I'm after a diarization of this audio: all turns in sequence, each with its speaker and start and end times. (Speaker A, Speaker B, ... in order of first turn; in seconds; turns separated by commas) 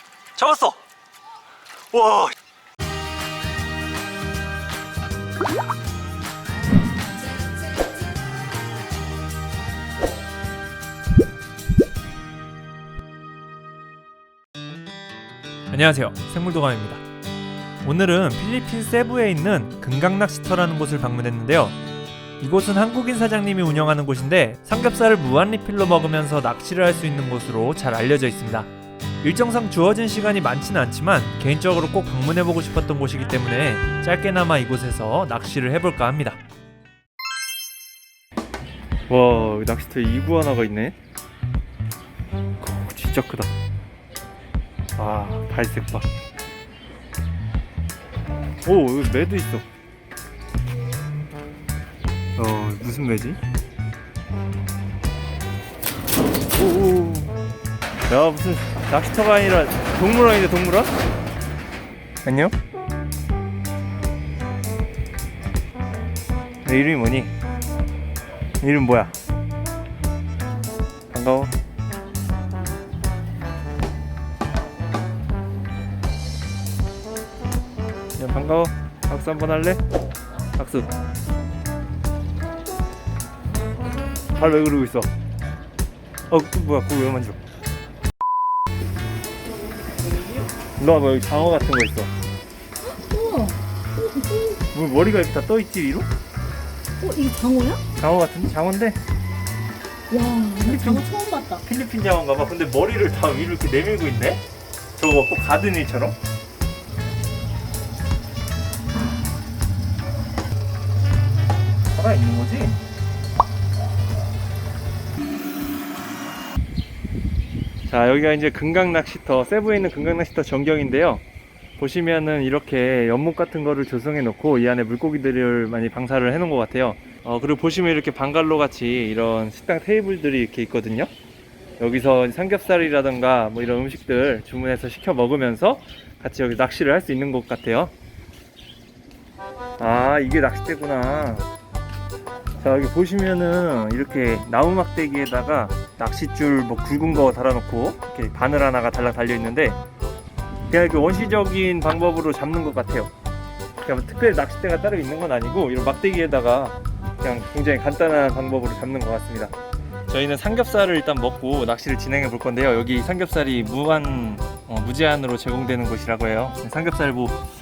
Speaker A: 0.4-0.8, Speaker A: 1.9-2.4, Speaker A: 15.7-17.0, Speaker A: 17.8-21.8, Speaker A: 22.4-28.7, Speaker A: 29.2-36.4, Speaker A: 39.1-41.0, Speaker A: 42.6-43.5, Speaker A: 45.0-46.1, Speaker A: 48.6-49.7, Speaker A: 52.4-53.4, Speaker A: 56.5-57.4, Speaker A: 58.1-60.9, Speaker A: 62.2-62.5, Speaker A: 66.7-67.3, Speaker A: 68.6-69.2, Speaker A: 71.1-71.5, Speaker A: 78.2-79.8, Speaker A: 80.6-80.9, Speaker A: 84.3-85.1, Speaker A: 86.3-87.4, Speaker A: 90.8-92.1, Speaker B: 93.0-94.6, Speaker A: 94.7-96.1, Speaker B: 97.0-97.8, Speaker A: 98.0-99.0, Speaker B: 100.1-101.6, Speaker A: 100.7-101.0, Speaker A: 101.6-104.4, Speaker A: 105.0-106.2, Speaker A: 111.9-112.8, Speaker A: 117.9-121.2, Speaker A: 121.8-131.1, Speaker A: 131.8-137.9, Speaker A: 139.8-141.5, Speaker A: 142.6-149.8, Speaker A: 150.7-153.1, Speaker A: 153.8-159.5, Speaker A: 160.1-167.4